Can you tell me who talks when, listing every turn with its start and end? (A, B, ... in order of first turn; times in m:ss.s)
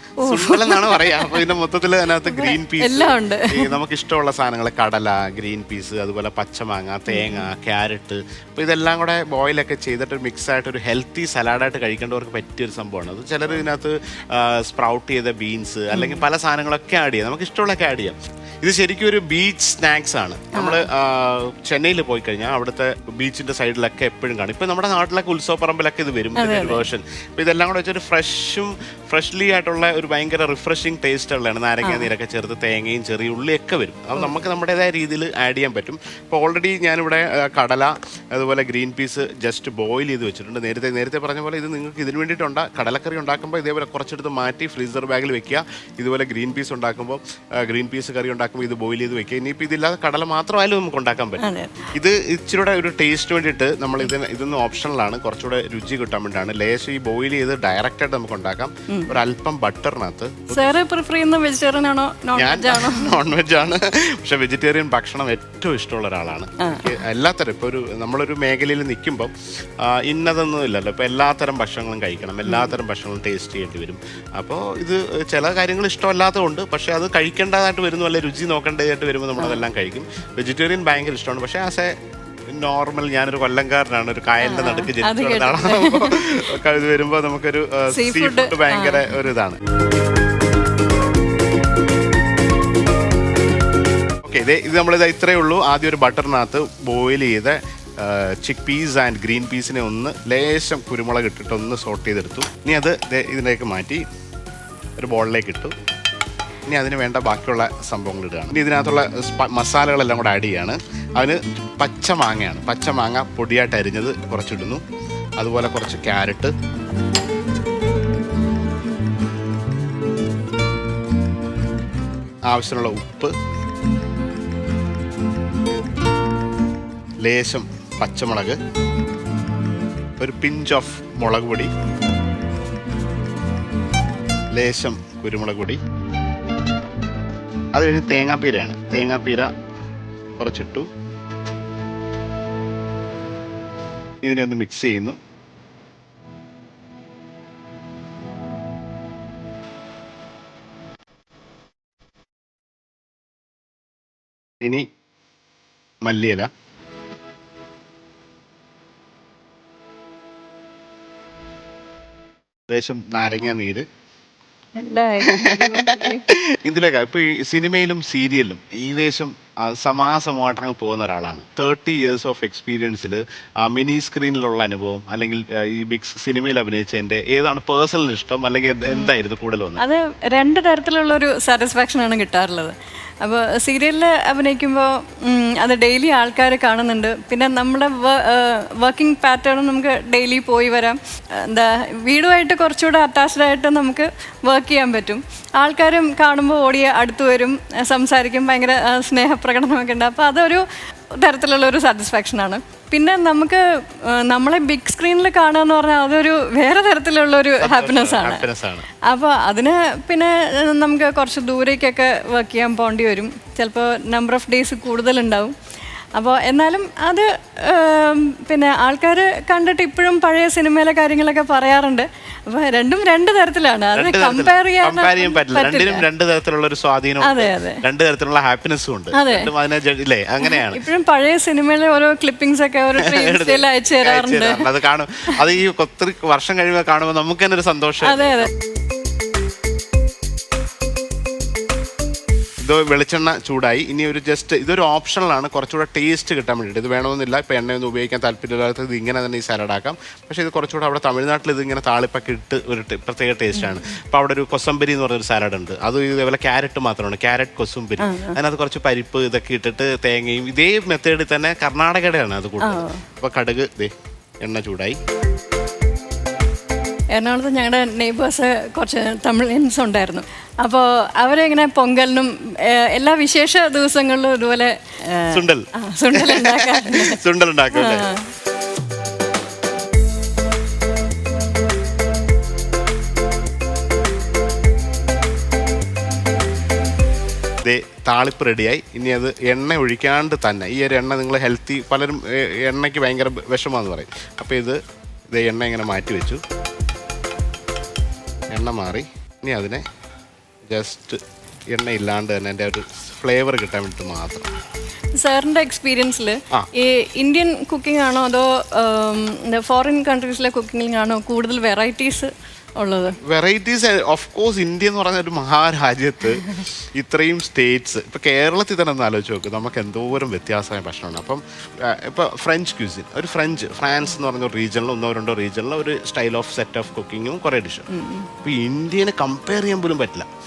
0:00.2-0:01.6 A
0:00.2-0:51.4 B
0:02.2-0:03.8 A
0:07.1-0:07.5 A
0:15.9-0:16.2 A
0:20.5-0:20.8 A
0:26.4-0:26.8 A
0:31.8-0:32.1 A
0:51.4-0:51.9 A
0:51.9-1:00.6 B
1:00.5-1:03.2 A
1:02.4-1:21.9 B
1:06.6-1:07.0 A
1:12.4-1:12.8 A
1:19.4-1:19.6 A
1:22.5-1:29.6 B
1:24.4-1:26.4 A
1:27.9-1:29.0 A
1:34.2-1:44.0 B
1:45.0-1:45.7 B
1:46.7-1:54.8 B
1:55.4-1:56.5 B
2:02.5-2:03.3 B
2:07.2-2:08.6 B
2:10.2-2:11.7 B
2:14.5-2:15.8 B
2:17.7-2:19.5 B
2:20.4-2:20.9 B
2:24.2-2:25.2 B
2:34.6-2:34.9 B
2:36.0-2:36.5 B
2:42.7-2:43.8 B
2:44.8-2:46.2 A
2:45.2-2:59.8 B
2:58.9-2:59.1 A
2:59.8-3:35.5 A
3:27.6-3:28.9 B
3:36.2-3:46.0 A
3:43.9-3:50.8 B
3:47.2-3:47.8 A
3:49.1-3:49.5 A
3:50.4-3:54.7 A
3:53.0-3:58.5 B
3:58.0-3:58.5 A
4:02.6-4:25.0 B
4:18.0-4:18.4 A
4:22.6-4:23.0 A
4:27.1-4:37.2 A
4:35.3-4:38.0 B
4:37.7-4:38.3 A
4:47.6-4:54.8 B
4:55.3-4:56.4 B
4:58.5-4:59.8 B
5:00.7-5:01.2 B
5:01.7-5:04.5 B
5:05.2-5:13.2 A
5:13.2-5:27.9 B
5:27.9-5:28.3 A
5:28.4-5:30.3 B